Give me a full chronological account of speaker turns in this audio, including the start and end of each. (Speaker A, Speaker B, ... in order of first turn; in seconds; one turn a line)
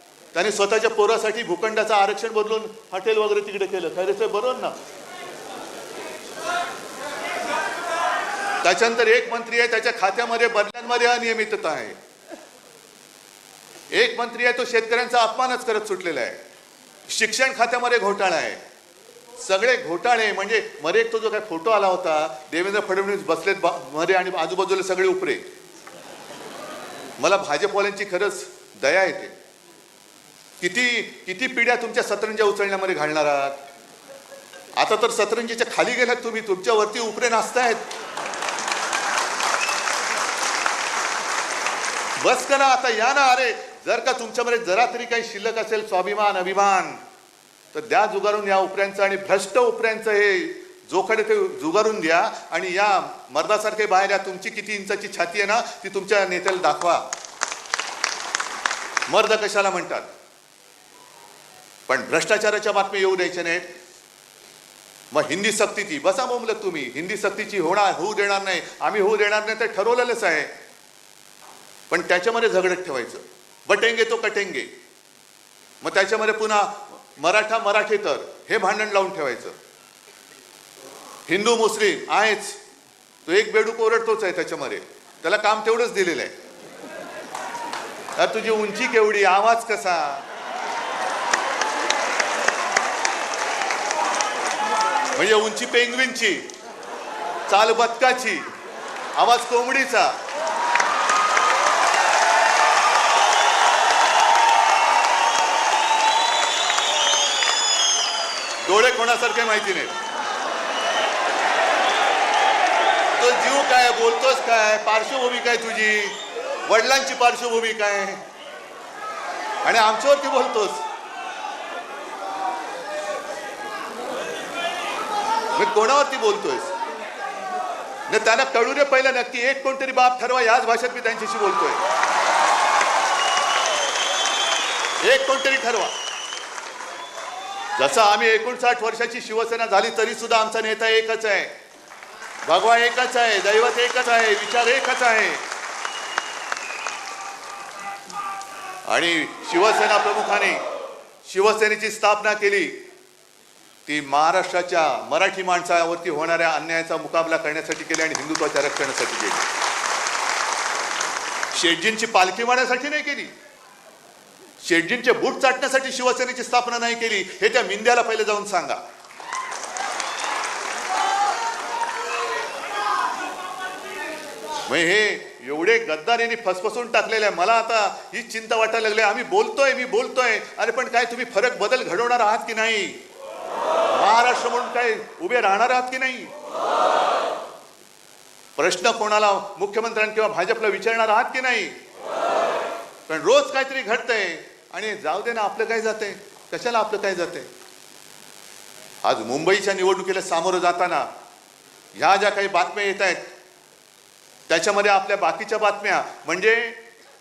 Speaker A: 0.3-4.8
Speaker A: 8.6-12.0
Speaker A: 13.9-16.4
Speaker A: 17.1-18.6
Speaker A: 19.4-25.4
Speaker A: 27.2-29.3
Speaker A: 30.6-33.5
Speaker A: 34.8-37.8
Speaker A: 42.2-47.0
Speaker A: 47.7-57.0
Speaker A: 59.1-60.1
Speaker A: 61.9-63.6
Speaker A: 65.1-70.5
Speaker A: 71.9-74.7
Speaker A: 75.8-79.6
Speaker A: 81.3-82.6
Speaker A: 83.3-86.3
Speaker A: 88.2-90.2
Speaker A: 95.1-96.5
Speaker A: 97.5-98.5
Speaker A: 99.2-100.1
Speaker A: 108.6-109.9
Speaker A: 113.2-118.2
Speaker A: 119.6-120.8
Speaker A: 125.5-126.7
Speaker A: 128.1-131.8
Speaker A: 135.0-135.9
Speaker A: 137.8-141.5
Speaker A: 142.4-145.4
Speaker A: 148.9-150.6
Speaker A: 151.2-152.8
Speaker A: 153.9-159.5
Speaker A: 161.5-163.3
Speaker A: 164.6-168.8
Speaker A: 174.7-183.0
Speaker A: 183.9-186.3
Speaker A: 188.6-191.8
Speaker A: 193.1-197.5
Speaker A: 199.0-201.1
Speaker A: 201.9-203.2
Speaker A: 204.5-206.8